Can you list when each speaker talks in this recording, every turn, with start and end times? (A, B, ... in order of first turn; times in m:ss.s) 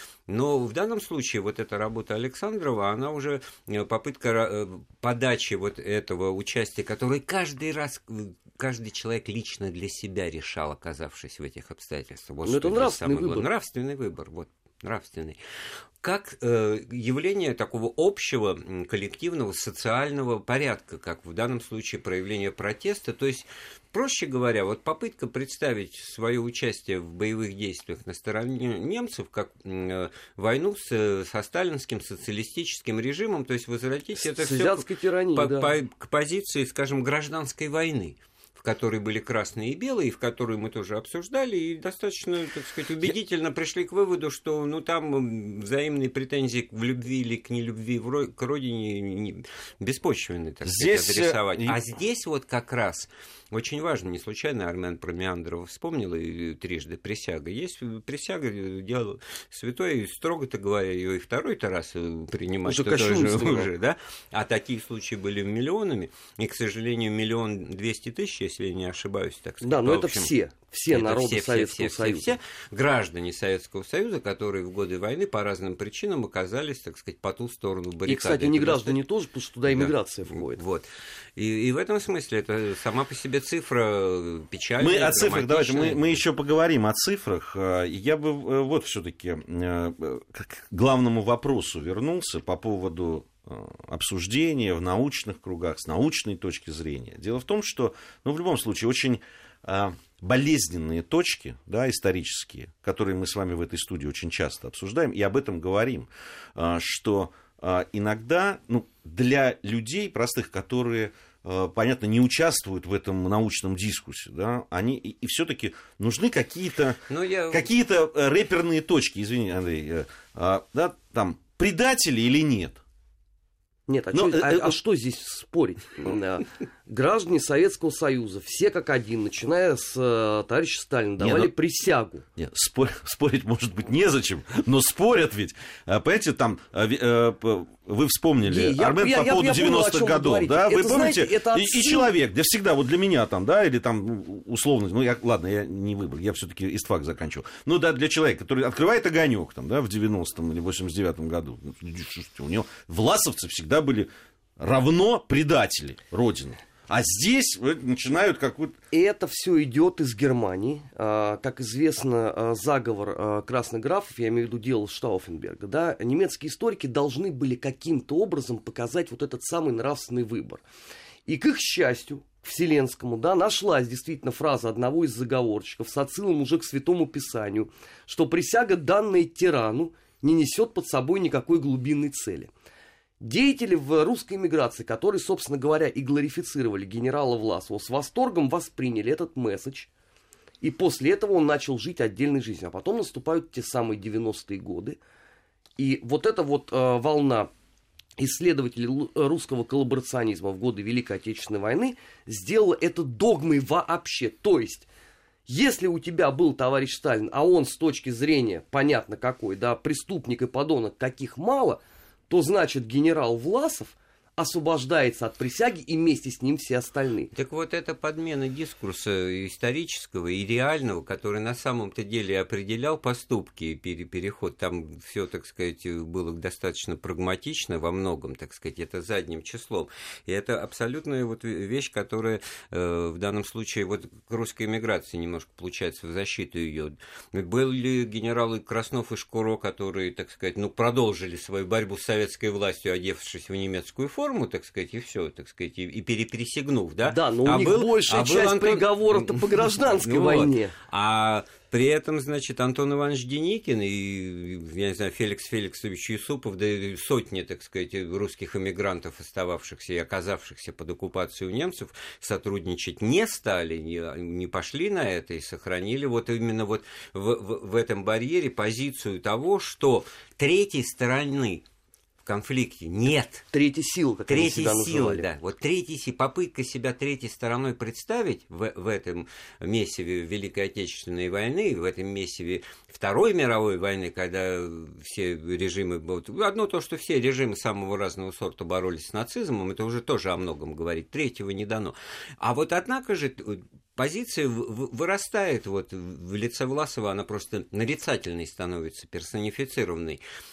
0:00.3-0:15.4 A
0:12.5-0:13.5 B
0:16.0-1:10.3 A
0:34.2-0:35.7 B
0:50.6-0:51.8 C
1:02.6-1:03.7 B
1:09.6-1:12.4 B
1:10.9-1:19.0 A
1:18.1-1:20.6 B
1:19.7-1:26.2 A
1:24.8-2:02.8 C
1:57.1-1:57.7 A
2:03.9-2:12.2 B
2:04.1-2:04.8 C
2:11.2-2:11.5 C
2:12.4-2:38.8 C
2:18.4-2:22.1 B
2:38.9-2:50.6 B
2:51.3-3:02.5 B
3:03.2-3:09.9 B
3:10.6-3:15.0 B
3:15.8-3:17.5 B
3:18.2-3:24.9 B
3:25.5-3:37.3 B
3:37.3-4:31.6 A
4:07.1-4:10.7 B
4:32.2-4:33.5 A
4:33.5-4:35.3 B
4:34.3-5:00.2 A